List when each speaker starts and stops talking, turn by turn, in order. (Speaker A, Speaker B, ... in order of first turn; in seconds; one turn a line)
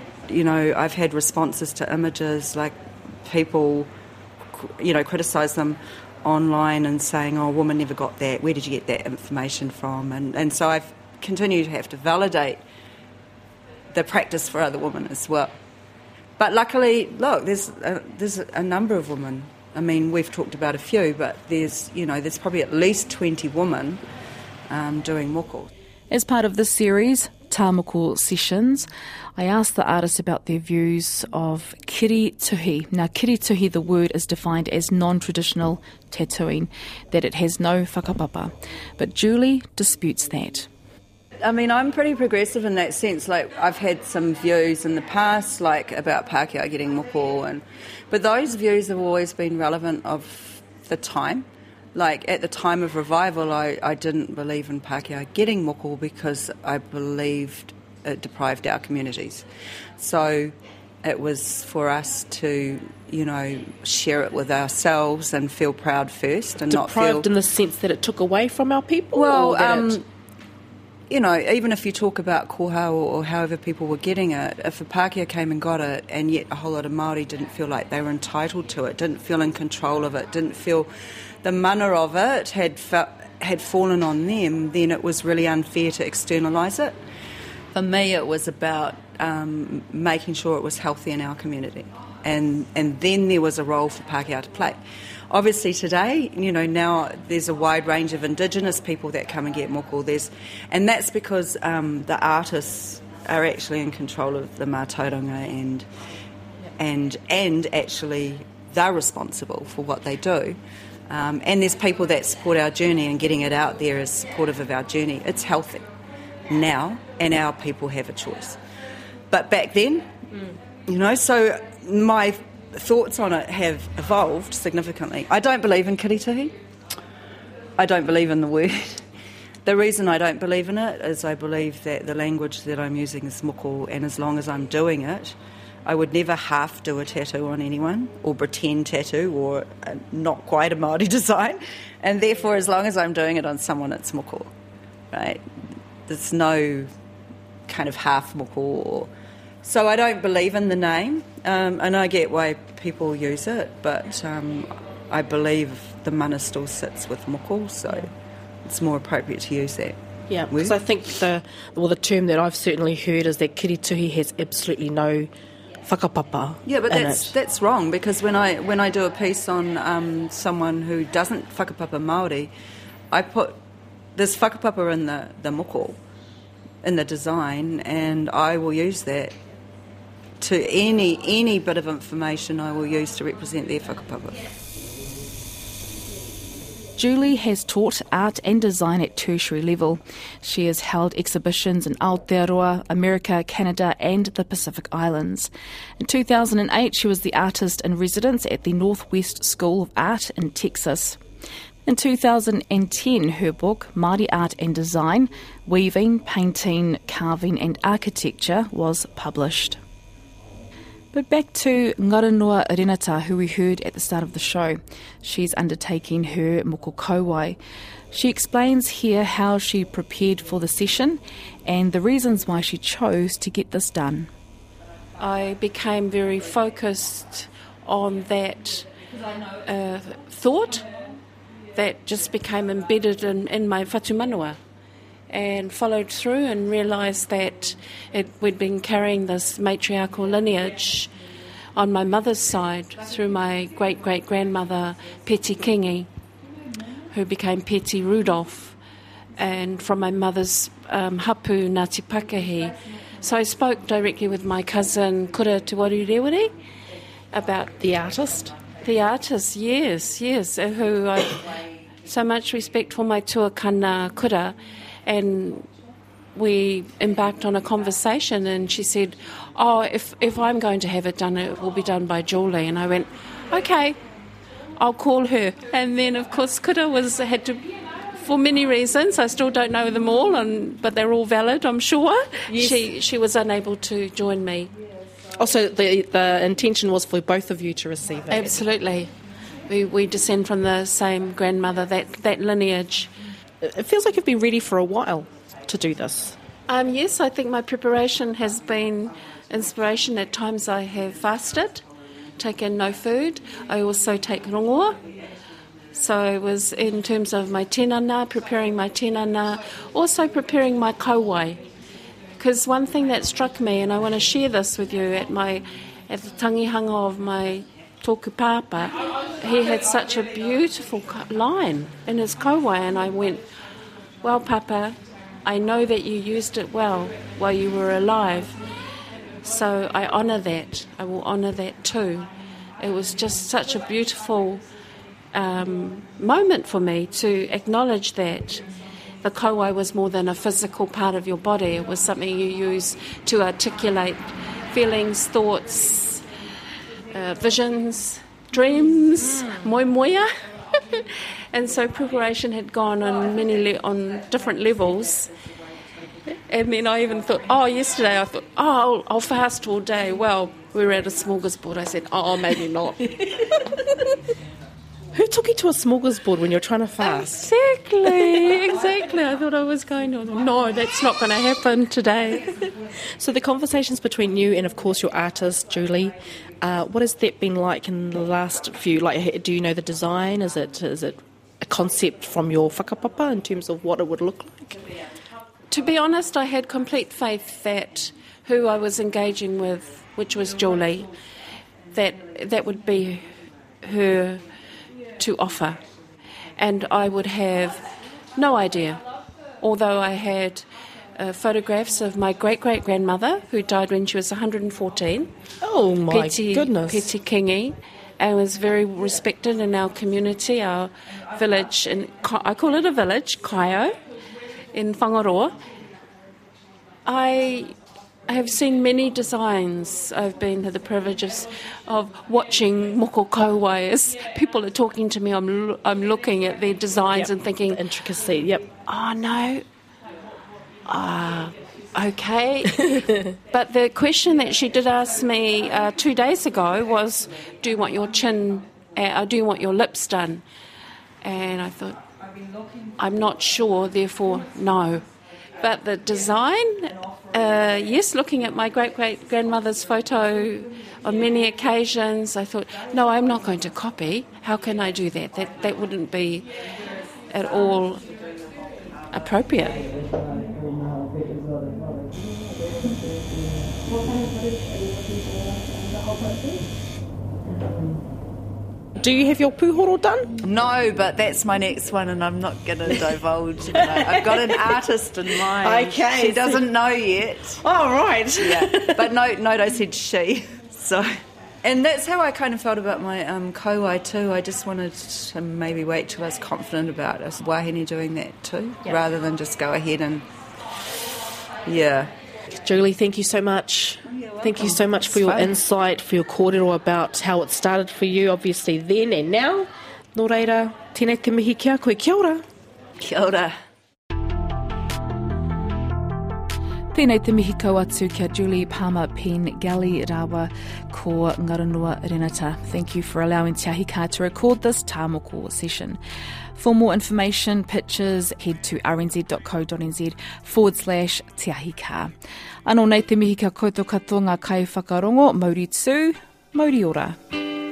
Speaker A: 0.3-3.9
Speaker A: 4.5-12.6
Speaker A: 13.9-15.6
Speaker A: 16.4-24.0
Speaker A: 24.7-25.7
Speaker B: 26.1-40.7
Speaker A: 41.4-59.5
Speaker A: 60.0-67.3
Speaker C: 66.7-70.0
Speaker A: 69.1-70.0
Speaker A: 71.1-80.9
Speaker A: 81.4-87.0
Speaker A: 87.7-94.8
Speaker A: 95.3-105.9
Speaker A: 106.8-115.9
Speaker A: 116.5-118.6
Speaker A: 119.3-120.1
Speaker A: 120.8-126.5
Speaker A: 127.8-129.1
Speaker A: 129.6-144.5
Speaker A: 145.1-145.4
Speaker A: 146.1-146.9
Speaker A: 147.7-149.1
Speaker A: 149.6-158.1
Speaker A: 158.6-160.0
Speaker C: 160.3-165.3
Speaker A: 160.5-160.8
Speaker C: 165.8-167.3
Speaker A: 166.6-172.5
Speaker A: 173.1-173.6
Speaker A: 174.1-176.0
Speaker A: 176.8-179.4
Speaker A: 180.4-184.4
Speaker B: 187.0-201.2
Speaker B: 201.8-209.8
Speaker B: 211.1-217.6
Speaker B: 218.1-224.3
Speaker D: 225.2-228.9
Speaker D: 229.6-230.9
Speaker D: 231.7-234.6
Speaker D: 235.3-241.1
Speaker D: 241.7-246.1
Speaker D: 247.1-248.8
Speaker D: 249.4-256.5
Speaker D: 257.3-257.7
Speaker C: 257.8-258.5
Speaker D: 258.8-261.4
Speaker D: 262.0-265.7
Speaker D: 266.3-274.0
Speaker D: 274.8-284.7
Speaker C: 282.5-282.9
Speaker C: 285.4-288.6
Speaker D: 288.3-289.1
Speaker D: 289.7-293.1
Speaker C: 293.6-296.4
Speaker D: 296.7-301.8
Speaker D: 302.4-305.0
Speaker D: 305.9-311.6
Speaker D: 312.4-323.4
Speaker D: 324.2-328.6
Speaker D: 329.4-334.6
Speaker D: 335.3-338.6
Speaker D: 339.2-346.2
Speaker D: 347.1-355.3
Speaker D: 356.4-363.5
Speaker C: 365.1-367.5
Speaker D: 367.0-372.5
Speaker C: 373.2-384.8
Speaker D: 385.7-391.1
Speaker D: 391.9-393.2
Speaker D: 393.8-394.4
Speaker D: 395.2-395.8
Speaker D: 396.6-397.8
Speaker D: 398.4-399.0
Speaker D: 399.6-405.3
Speaker C: 405.6-407.1
Speaker D: 406.1-413.9
Speaker D: 414.7-415.5
Speaker D: 417.0-417.7
Speaker D: 418.3-427.8
Speaker C: 427.1-428.7
Speaker D: 428.8-429.6
Speaker D: 430.9-440.4
Speaker C: 432.8-433.3
Speaker D: 441.2-442.0
Speaker D: 443.0-445.0
Speaker D: 445.6-456.5
Speaker D: 457.3-458.1
Speaker D: 459.1-460.0
Speaker B: 460.1-462.1
Speaker C: 469.0-470.4
Speaker A: 470.4-477.6
Speaker C: 473.8-474.6
Speaker C: 475.4-476.6
Speaker C: 477.6-479.1
Speaker A: 478.4-490.3
Speaker A: 491.6-492.1
Speaker C: 492.5-502.4
Speaker A: 494.1-495.6
Speaker A: 503.0-503.6
Speaker B: 506.9-516.0
Speaker B: 516.5-522.1
Speaker B: 522.6-527.2